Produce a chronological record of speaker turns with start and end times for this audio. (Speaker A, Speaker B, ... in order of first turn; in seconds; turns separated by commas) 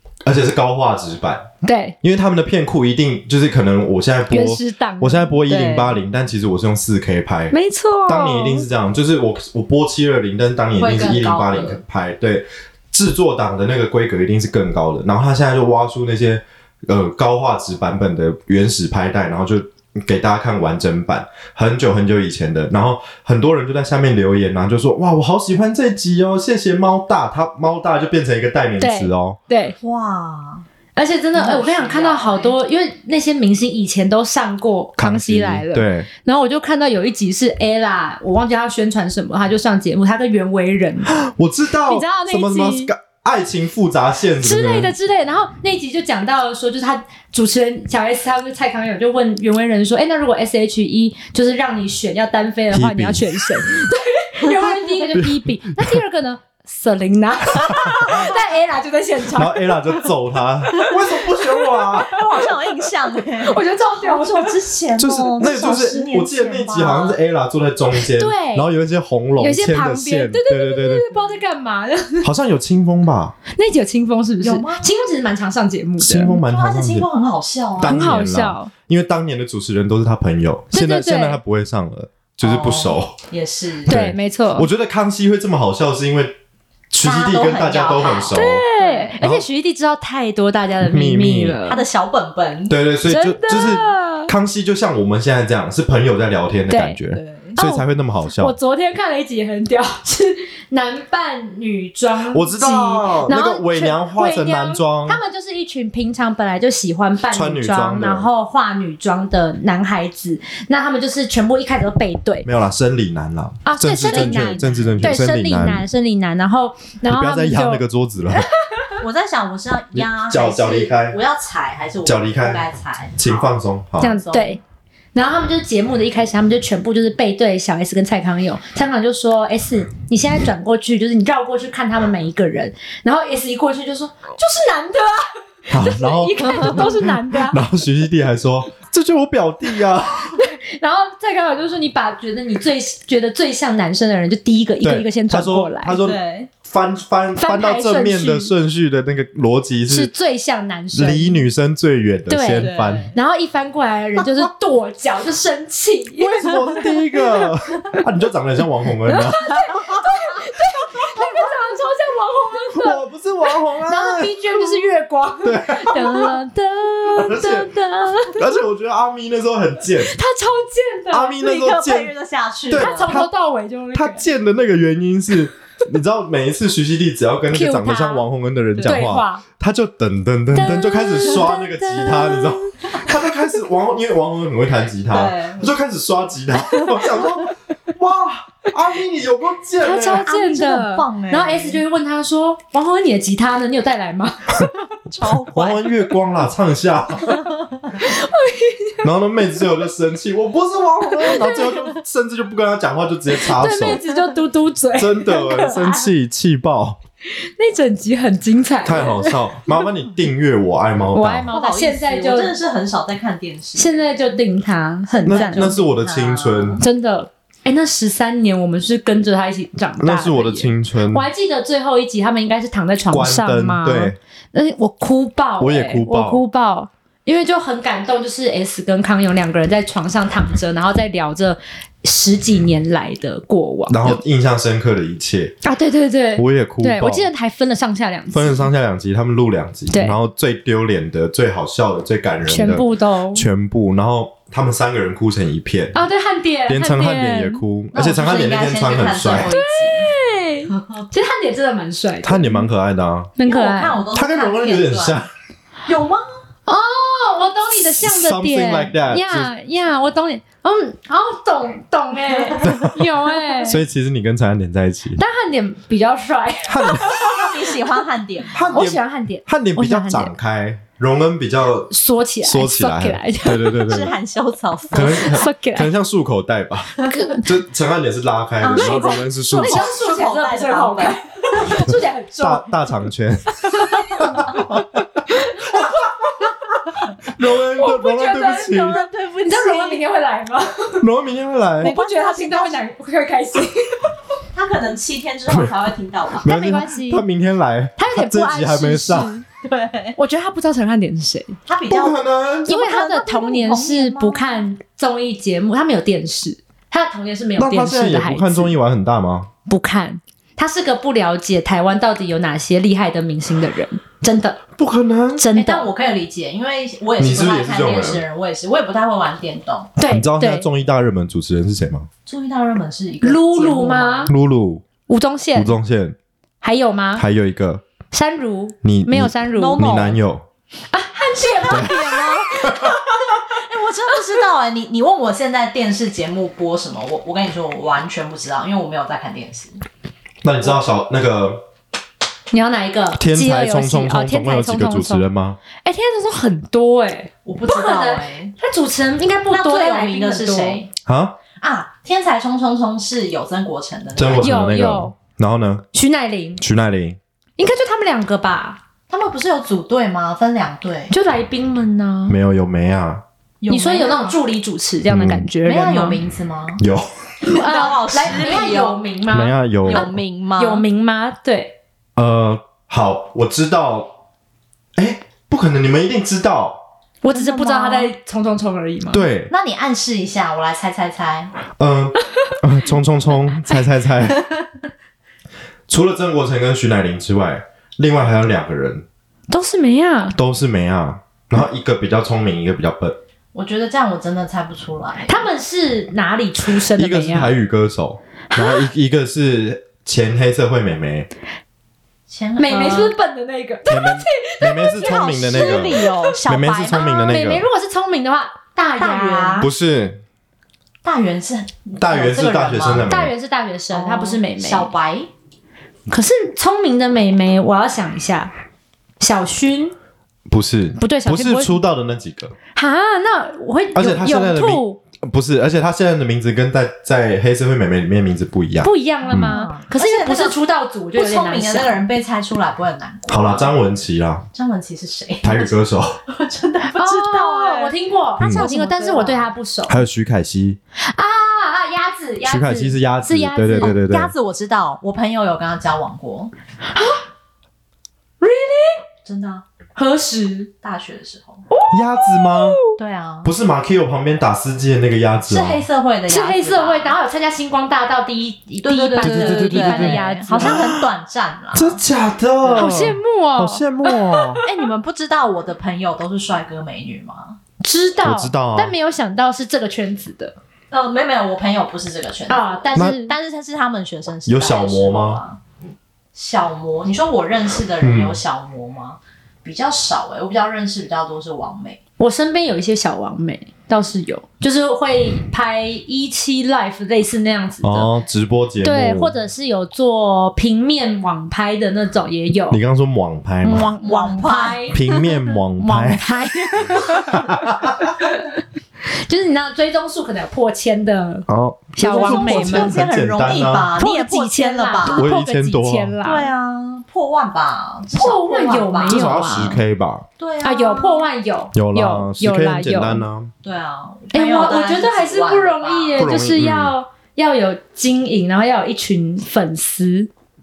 Speaker A: 0.2-1.4, Speaker B: 1.6-1.9, Speaker A: 2.0-7.5, Speaker B: 4.3-5.3, Speaker C: 5.5-6.0, Speaker B: 7.5-8.7, Speaker A: 8.1-29.4, Speaker C: 10.8-11.8, Speaker B: 28.8-29.8, Speaker C: 29.8-30.6, Speaker B: 30.9-41.2, Speaker C: 31.3-32.5, Speaker A: 35.0-36.1, Speaker A: 41.2-44.9, Speaker B: 41.9-42.9, Speaker B: 44.4-60.1, Speaker A: 52.7-53.9, Speaker C: 54.4-55.0, Speaker A: 55.1-56.0, Speaker A: 57.6-58.2, Speaker A: 59.3-62.2, Speaker B: 60.8-62.0, Speaker C: 62.0-67.2, Speaker B: 63.4-64.5, Speaker A: 65.0-71.1, Speaker B: 67.9-68.7, Speaker B: 69.4-72.3, Speaker A: 72.2-73.3, Speaker B: 73.5-76.4, Speaker C: 74.4-74.9, Speaker A: 76.0-77.1, Speaker C: 76.5-78.0, Speaker A: 77.8-83.2, Speaker B: 77.8-78.7, Speaker B: 80.7-81.4, Speaker C: 82.4-83.9, Speaker B: 83.9-84.7, Speaker A: 83.9-86.3, Speaker A: 86.9-88.6, Speaker C: 87.0-89.2, Speaker B: 88.3-91.8, Speaker A: 89.2-89.5, Speaker A: 90.8-91.6, Speaker C: 91.6-92.8, Speaker A: 92.7-98.5, Speaker B: 93.0-94.3, Speaker B: 96.7-97.0, Speaker C: 97.1-97.6, Speaker B: 97.6-112.5, Speaker A: 102.3-105.2, Speaker A: 107.3-108.3, Speaker A: 112.4-115.8, Speaker B: 113.6-118.9, Speaker C: 114.0-114.9, Speaker A: 117.0-118.5, Speaker C: 119.0-124.6, Speaker A: 119.9-121.2, Speaker A: 122.0-122.6, Speaker A: 123.1-124.1, Speaker B: 124.0-124.6, Speaker B: 125.1-137.6, Speaker A: 135.7-140.4, Speaker B: 140.3-146.0, Speaker A: 144.8-150.1, Speaker C: 146.0-146.5, Speaker B: 147.3-148.5, Speaker B: 149.9-151.4, Speaker A: 150.9-153.1, Speaker B: 152.3-157.1, Speaker C: 152.5-153.2, Speaker A: 156.2-160.1, Speaker B: 159.1-168.5, Speaker A: 162.7-164.8, Speaker A: 165.4-166.4, Speaker A: 167.1-167.7, Speaker A: 168.3-170.2, Speaker B: 169.9-171.4, Speaker A: 171.1-172.1, Speaker C: 171.4-173.1, Speaker A: 172.7-173.3, Speaker B: 172.7-174.3, Speaker A: 173.9-190.3, Speaker B: 177.5-178.2, Speaker C: 178.8-179.0, Speaker B: 178.8-179.4, Speaker B: 180.5-182.8, Speaker C: 185.1-185.7, Speaker B: 189.8-194.7, Speaker C: 190.1-191.8, Speaker C: 195.1-195.8, Speaker A: 195.5-197.4, Speaker C: 197.5-198.0, Speaker B: 198.0-199.0, Speaker A: 199.0-204.0, Speaker B: 201.0-201.9, Speaker B: 203.4-206.1, Speaker C: 203.9-204.3, Speaker A: 204.9-207.0, Speaker B: 207.3-209.4, Speaker A: 208.8-211.5, Speaker B: 211.1-212.6, Speaker C: 211.5-214.1, Speaker B: 213.7-215.8, Speaker C: 215.1-216.8, Speaker A: 215.2-216.8, Speaker B: 216.8-234.2, Speaker A: 220.0-221.3, Speaker A: 223.1-224.2, Speaker A: 225.6-226.4, Speaker A: 233.9-235.5, Speaker B: 235.6-238.7, Speaker A: 236.3-237.3, Speaker A: 238.3-246.0, Speaker B: 239.9-240.2, Speaker B: 242.4-243.4, Speaker B: 245.9-247.6, Speaker A: 246.7-249.5, Speaker C: 247.9-250.1, Speaker B: 249.4-252.7, Speaker C: 250.7-251.1, Speaker A: 252.2-253.3, Speaker B: 253.4-254.0, Speaker C: 253.4-255.2, Speaker A: 254.1-255.3, Speaker C: 255.9-256.3, Speaker B: 256.7-263.8, Speaker A: 257.8-259.5, Speaker A: 262.7-263.0, Speaker A: 263.6-265.2, Speaker B: 265.1-267.5, Speaker A: 266.7-267.4, Speaker C: 267.1-268.8, Speaker A: 268.5-271.9, Speaker B: 268.7-270.3, Speaker B: 271.9-274.0, Speaker A: 272.4-274.1, Speaker C: 273.8-275.5, Speaker A: 274.9-279.9, Speaker B: 275.0-275.9, Speaker B: 277.1-277.5, Speaker C: 278.6-281.7, Speaker B: 278.7-282.7, Speaker A: 282.4-284.8, Speaker B: 283.5-286.3, Speaker A: 287.2-289.1, Speaker B: 287.8-288.9, Speaker C: 288.4-290.0, Speaker B: 289.4-291.0, Speaker A: 291.0-291.9, Speaker C: 291.8-292.8, Speaker B: 291.8-294.1, Speaker C: 294.5-296.5, Speaker A: 295.5-295.7, Speaker A: 296.4-299.3, Speaker B: 296.4-297.2, Speaker B: 298.0-299.4, Speaker C: 299.6-300.2, Speaker B: 300.1-301.6, Speaker C: 301.6-304.6, Speaker A: 301.9-302.8, Speaker B: 302.6-308.8, Speaker A: 307.6-309.5, Speaker B: 309.6-314.6, Speaker A: 314.8-315.5, Speaker B: 315.4-315.9, Speaker C: 315.5-319.9, Speaker A: 317.2-318.2, Speaker B: 319.9-320.7, Speaker A: 320.0-322.1, Speaker C: 322.2-324.3, Speaker B: 323.2-324.3, Speaker A: 324.3-324.8, Speaker B: 325.1-325.7, Speaker A: 325.5-326.1, Speaker B: 326.6-327.2, Speaker A: 327.1-327.8, Speaker B: 328.1-330.1, Speaker A: 328.8-330.4, Speaker C: 329.5-330.2, Speaker B: 330.9-332.8, Speaker C: 331.4-339.8, Speaker A: 331.7-332.0, Speaker A: 340.4-341.6, Speaker B: 342.5-345.3, Speaker A: 343.2-345.6, Speaker B: 345.8-350.8, Speaker C: 347.4-348.5, Speaker C: 349.5-350.9, Speaker A: 351.0-351.4, Speaker C: 351.6-354.5, Speaker A: 354.1-355.8, Speaker B: 354.4-355.1, Speaker B: 355.9-356.6, Speaker A: 356.6-357.2, Speaker B: 357.6-358.8, Speaker C: 359.1-361.1, Speaker B: 361.1-362.4, Speaker A: 362.3-363.2, Speaker C: 363.6-364.4, Speaker B: 363.7-366.2, Speaker A: 365.1-365.5, Speaker C: 365.6-366.8, Speaker A: 366.8-367.1, Speaker C: 367.4-369.0, Speaker B: 367.4-371.7, Speaker A: 369.3-370.1, Speaker C: 369.8-370.8, Speaker A: 372.1-374.1, Speaker A: 374.9-376.8, Speaker B: 377.2-379.3, Speaker C: 377.3-378.1, Speaker A: 379.1-379.5, Speaker C: 379.5-381.5, Speaker A: 381.8-384.4, Speaker A: 385.9-389.0, Speaker B: 389.5-390.4, Speaker A: 390.3-393.2, Speaker C: 393.5-395.5, Speaker B: 395.2-397.6, Speaker A: 396.8-401.3, Speaker B: 398.5-398.9, Speaker C: 402.3-403.1, Speaker B: 402.6-405.2, Speaker A: 403.9-407.6, Speaker C: 404.9-407.1, Speaker B: 406.9-409.7, Speaker C: 409.0-409.7, Speaker A: 409.6-410.2, Speaker C: 411.0-413.1, Speaker A: 412.0-413.3, Speaker B: 413.0-414.9, Speaker C: 413.9-415.3, Speaker B: 416.1-418.5, Speaker B: 419.2-419.9, Speaker A: 420.5-422.5, Speaker B: 421.0-421.8, Speaker B: 422.7-425.0, Speaker A: 423.9-429.6, Speaker B: 428.8-432.1, Speaker C: 429.3-430.6, Speaker C: 431.1-433.8, Speaker A: 433.3-434.4, Speaker C: 434.5-439.5, Speaker A: 435.4-436.1, Speaker B: 436.9-440.0, Speaker A: 438.4-438.6, Speaker A: 439.9-440.8, Speaker B: 441.0-443.9, Speaker A: 442.4-444.3, Speaker C: 443.8-446.5, Speaker B: 446.9-447.2, Speaker B: 448.4-449.0, Speaker C: 449.2-449.6, Speaker B: 449.9-450.7, Speaker C: 450.8-451.6, Speaker B: 451.7-452.9, Speaker A: 451.9-452.8, Speaker C: 452.9-453.5, Speaker A: 453.4-455.8, Speaker C: 455.5-457.1, Speaker B: 456.3-460.9, Speaker C: 458.8-462.0, Speaker A: 459.2-461.1, Speaker A: 461.7-464.6, Speaker B: 462.7-464.7, Speaker C: 464.6-467.6, Speaker B: 467.8-470.5, Speaker A: 468.2-468.9, Speaker C: 470.9-475.6, Speaker B: 472.5-473.3, Speaker A: 472.9-473.2, Speaker A: 474.4-475.4, Speaker C: 476.3-482.0, Speaker A: 478.0-478.4, Speaker B: 482.2-488.1, Speaker A: 487.8-489.3, Speaker B: 488.8-492.8, Speaker A: 492.7-493.9, Speaker B: 493.6-495.1, Speaker C: 494.0-495.3, Speaker A: 494.9-496.3, Speaker B: 495.8-498.6, Speaker A: 496.8-498.1, Speaker B: 499.2-503.0, Speaker A: 501.5-503.9, Speaker C: 502.0-505.3, Speaker B: 503.9-506.5, Speaker A: 505.1-506.1, Speaker C: 506.2-509.4, Speaker B: 508.1-509.8, Speaker A: 509.1-510.2, Speaker C: 510.4-511.3, Speaker B: 510.6-513.2, Speaker A: 511.7-513.5, Speaker C: 513.6-516.2, Speaker B: 514.3-520.3, Speaker A: 516.1-517.0